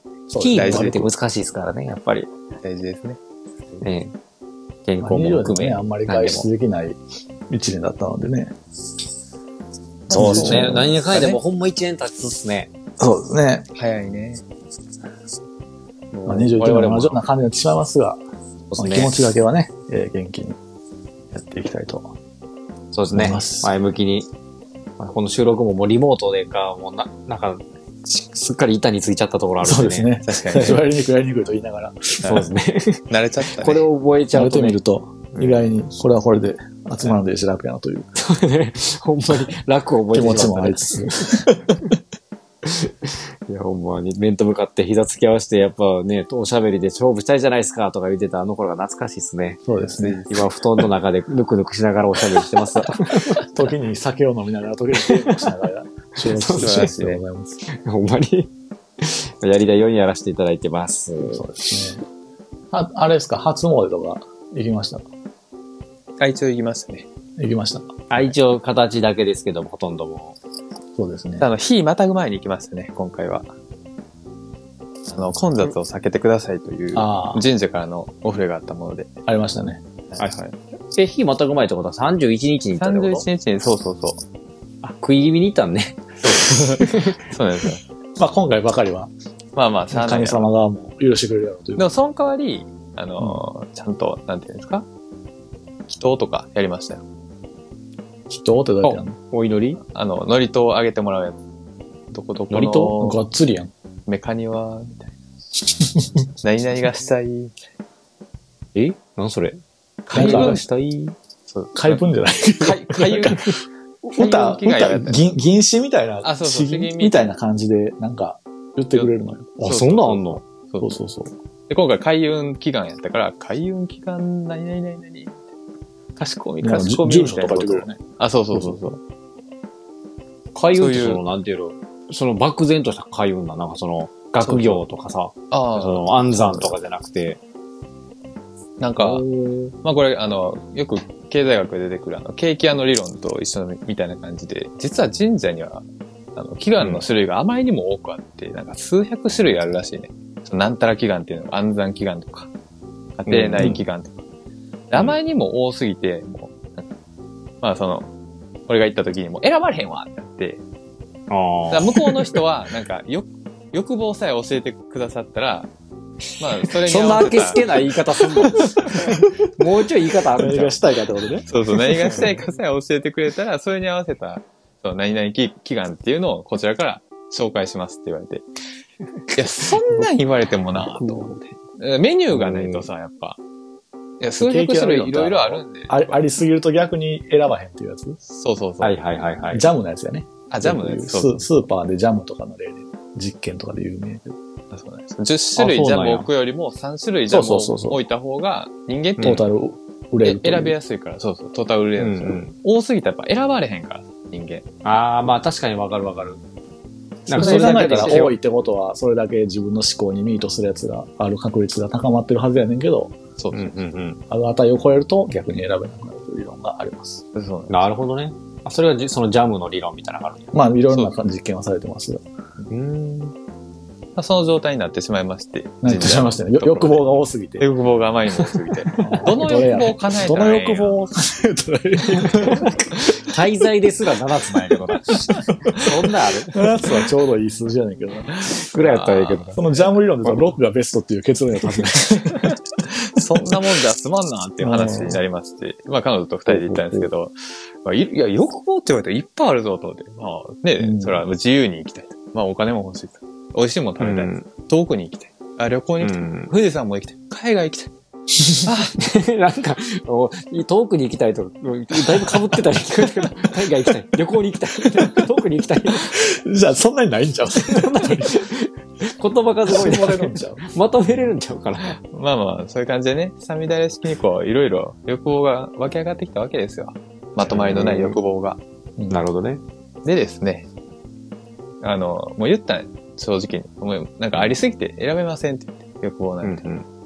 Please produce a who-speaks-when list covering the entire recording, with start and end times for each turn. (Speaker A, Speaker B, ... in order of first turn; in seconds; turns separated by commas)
Speaker A: 0.3-1.1, Speaker B: 0.4-2.3, Speaker C: 0.5-1.1, Speaker C: 2.6-3.2, Speaker B: 3.8-4.1, Speaker B: 4.9-6.5, Speaker A: 5.0-7.0, Speaker A: 7.5-8.5, Speaker A: 10.1-11.3, Speaker C: 10.1-11.3, Speaker B: 10.1-12.7, Speaker A: 13.0-13.7, Speaker C: 13.7-14.4, Speaker B: 16.1-17.2, Speaker A: 16.2-18.2, Speaker B: 18.7-19.2, Speaker A: 18.8-20.6, Speaker A: 21.3-22.1, Speaker B: 22.9-24.3, Speaker A: 23.1-23.7, Speaker B: 25.0-30.8, Speaker A: 29.6-32.3, Speaker C: 30.2-30.8, Speaker C: 32.2-32.5, Speaker B: 32.2-34.8, Speaker C: 33.1-33.9, Speaker A: 34.3-38.1, Speaker B: 35.3-35.6, Speaker B: 38.2-41.5, Speaker A: 40.1-41.9, Speaker B: 42.6-49.6, Speaker A: 49.7-50.2, Speaker C: 50.0-50.5, Speaker B: 50.2-53.5, Speaker A: 53.1-57.6, Speaker B: 55.1-55.4, Speaker B: 56.3-56.9, Speaker C: 56.6-57.2, Speaker B: 57.7-61.4, Speaker A: 61.3-62.0, Speaker A: 62.7-65.0, Speaker C: 66.2-67.0, Speaker A: 67.4-68.1, Speaker B: 68.1-70.4, Speaker A: 71.0-71.5, Speaker C: 71.4-73.5, Speaker C: 75.1-79.1, Speaker A: 76.9-77.5, Speaker A: 79.3-79.8, Speaker C: 80.1-80.5, Speaker B: 80.9-83.2, Speaker C: 82.8-84.2, Speaker B: 84.8-87.2, Speaker C: 86.2-87.8, Speaker A: 88.2-89.1, Speaker C: 89.5-90.5, Speaker A: 89.9-91.9, Speaker C: 91.8-94.8, Speaker C: 95.9-97.0, Speaker A: 98.3-99.2, Speaker B: 98.8-99.8, Speaker C: 99.9-101.4, Speaker C: 102.1-103.2, Speaker B: 102.5-103.0, Speaker A: 102.9-103.7, Speaker C: 104.1-105.1, Speaker A: 105.7-106.2, Speaker C: 106.4-107.5, Speaker B: 108.7-111.1, Speaker A: 110.1-110.6, Speaker C: 110.1-110.6, Speaker C: 111.5-112.0, Speaker A: 111.7-120.1, Speaker C: 112.6-113.5, Speaker C: 114.1-115.3, Speaker C: 116.2-117.3, Speaker B: 119.6-120.4, Speaker C: 119.6-121.0, Speaker A: 120.8-121.3, Speaker C: 121.7-125.4, Speaker C: 126.2-129.0, Speaker A: 126.6-128.0, Speaker A: 128.5-128.8, Speaker B: 130.5-137.4, Speaker C: 130.7-131.2, Speaker C: 134.4-134.8, Speaker C: 135.5-136.8, Speaker C: 138.8-139.2, Speaker B: 139.0-139.7, Speaker C: 139.8-145.8, Speaker C: 146.3-152.5, Speaker B: 146.8-147.0, Speaker C: 153.2-154.2, Speaker B: 153.3-153.8, Speaker C: 154.9-156.9, Speaker C: 157.6-158.1, Speaker C: 158.7-160.6, Speaker B: 161.3-162.3, Speaker C: 161.7-165.7, Speaker C: 166.4-168.7, Speaker B: 166.8-170.8, Speaker A: 168.9-169.4, Speaker A: 170.3-172.3, Speaker C: 171.5-178.4, Speaker C: 179.3-183.4, Speaker B: 180.8-181.5, Speaker B: 182.3-182.9, Speaker C: 184.2-186.2, Speaker A: 184.4-188.2, Speaker C: 188.3-189.0, Speaker B: 188.8-189.7, Speaker A: 189.5-194.4, Speaker C: 190.5-191.4, Speaker C: 194.7-199.4, Speaker B: 195.6-196.3, Speaker A: 197.3-198.0, Speaker A: 199.2-200.8, Speaker C: 200.2-204.7, Speaker B: 202.0-202.5, Speaker B: 204.8-206.4, Speaker B: 207.3-208.3, Speaker A: 207.3-213.1, Speaker C: 207.3-208.3, Speaker C: 213.4-213.7, Speaker B: 213.5-214.2, Speaker A: 214.3-217.2, Speaker C: 217.3-217.8, Speaker B: 217.7-220.6, Speaker A: 220.5-222.2, Speaker C: 222.7-223.3, Speaker C: 224.2-227.1, Speaker A: 225.8-227.7, Speaker C: 227.6-231.0, Speaker A: 229.0-233.0, Speaker B: 232.2-236.7, Speaker A: 235.1-235.9, Speaker A: 236.5-238.4, Speaker B: 238.4-239.7, Speaker C: 238.8-239.8, Speaker A: 239.5-242.6, Speaker C: 243.1-257.9, Speaker A: 244.6-245.2, Speaker B: 246.5-247.1, Speaker A: 250.8-251.2, Speaker B: 254.0-254.5, Speaker B: 256.0-256.5, Speaker A: 258.4-258.7, Speaker C: 258.6-259.0, Speaker B: 259.0-266.2, Speaker A: 265.9-268.5, Speaker B: 267.6-272.0, Speaker A: 269.7-270.6, Speaker C: 272.0-278.6, Speaker B: 277.4-278.2, Speaker A: 279.0-279.2, Speaker B: 279.1-279.6, Speaker C: 280.0-280.7, Speaker C: 281.8-286.7, Speaker B: 286.4-286.8